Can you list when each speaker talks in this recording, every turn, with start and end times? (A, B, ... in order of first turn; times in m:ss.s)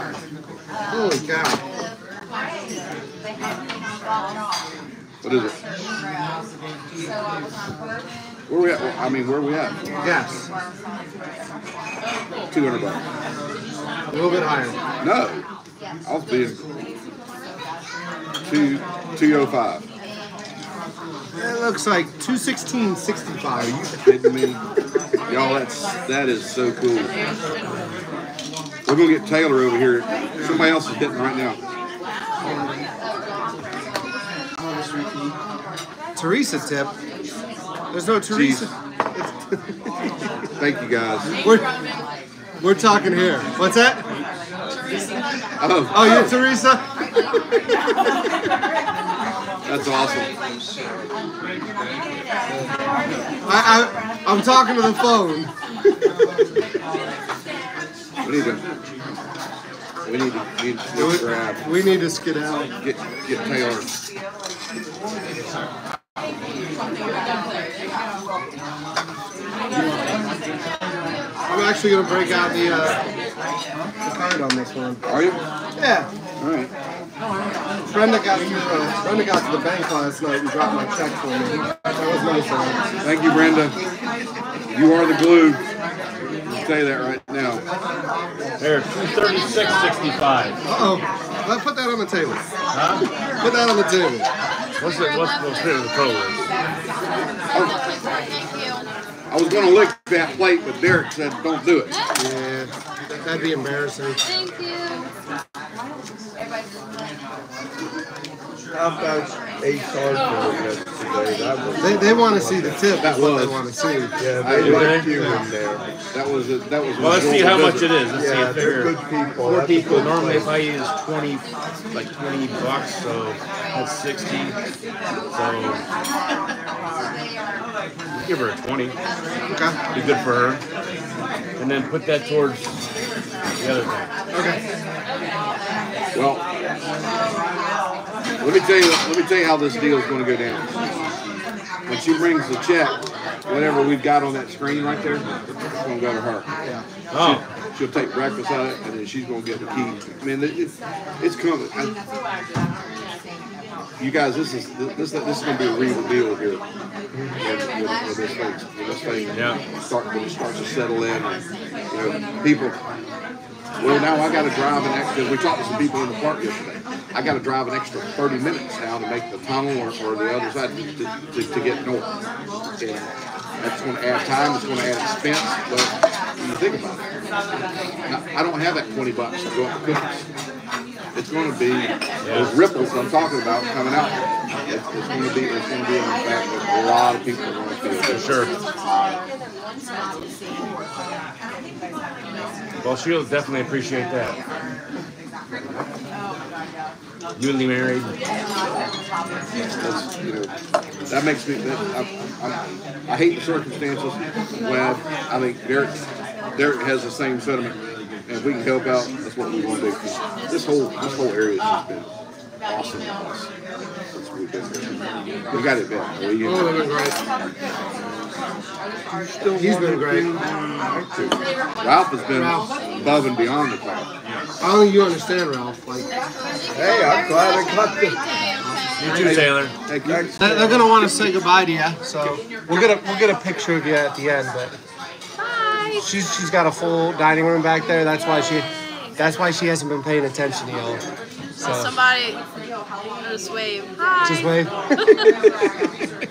0:00.9-0:01.6 A
0:05.2-0:05.6 B
0:08.5-0:09.9 B
0:10.0-0:10.5 A
0:12.5-0:13.0 B
0:14.1-0:14.8 A
0:15.0-0:15.5 B
0:16.0-0:16.7 B
0:18.4-0:19.8 B
0:21.4-0:23.8 A
0:23.6-0:24.6 B
0:25.3-0:27.1 B
0:28.8-0:31.6 B
0:36.2-0:36.9 A
0:37.9-0:40.0 A
0:38.3-0:38.7 B
0:40.6-0:41.4 B
0:41.3-0:42.0 C
0:41.4-0:41.7 A
0:42.6-0:44.1 A
0:45.6-0:46.4 B
0:45.9-0:46.9 A
0:49.6-0:50.3 B
0:53.4-0:55.5 A
0:58.2-0:58.8 B
1:00.0-1:01.6 B
1:00.9-1:02.7 A
1:02.8-1:03.9 B
1:11.5-1:13.0 A
1:14.0-1:15.0 A
1:15.0-1:15.4 B
1:15.8-1:16.1 A
1:16.4-1:16.7 B
1:17.9-1:22.8 A
1:23.0-1:23.8 B
1:24.7-1:25.6 B
1:26.5-1:27.6 B
1:28.6-1:30.6 D
1:30.7-1:32.4 A
1:32.7-1:33.0 D
1:33.4-1:34.3 A
1:34.8-1:36.4 D
1:34.8-1:38.9 C
1:39.3-1:41.9 B
1:42.2-1:44.2 A
1:44.2-1:45.1 C
1:48.7-1:52.9 E
1:51.8-1:55.4 A
1:52.9-1:53.7 B
1:54.2-1:55.8 E
1:54.3-1:55.1 B
1:54.4-1:55.3 D
1:56.1-1:57.9 B
1:57.0-2:04.6 D
1:58.1-2:00.5 E
2:05.3-2:05.8 D
2:08.1-2:09.0 D
2:09.5-2:09.8 A
2:09.9-2:10.6 D
2:11.6-2:12.8 D
2:13.6-2:14.1 D
2:14.3-2:14.6 A
2:16.1-2:16.4 B
2:18.4-2:20.8 B
2:21.9-2:26.5 B
2:27.1-2:27.4 D
2:27.1-2:32.0 B
2:34.0-2:36.6 B
2:37.1-2:37.4 E
2:37.4-2:42.8 B
2:39.3-2:39.6 D
2:43.8-2:52.1 B
2:52.8-2:53.1 B
2:53.6-2:57.0 B
2:58.1-3:00.2 B
3:01.2-3:08.3 B
3:02.2-3:02.6 D
3:08.1-3:08.5 D
3:12.8-3:14.4 D
3:17.4-3:18.2 D
3:19.8-3:20.5 B
3:21.1-3:26.0 B
3:26.5-3:32.1 B
3:32.6-3:33.5 B
3:34.1-3:36.9 B
3:36.4-3:37.2 A
3:39.1-3:41.4 E
3:39.6-3:40.3 A
3:41.8-3:44.1 B
3:42.3-3:42.7 A
3:44.6-3:46.1 A
3:46.4-3:49.5 C
3:46.7-3:48.2 E
3:49.0-3:49.7 D
3:49.1-3:50.2 B
3:50.0-3:50.9 E
3:50.4-3:54.8 A
3:55.4-3:56.1 C
3:56.0-3:58.7 A
3:59.2-4:01.0 A
4:01.6-4:02.0 A
4:01.6-4:02.4 C
4:03.2-4:05.6 C
4:04.2-4:05.7 A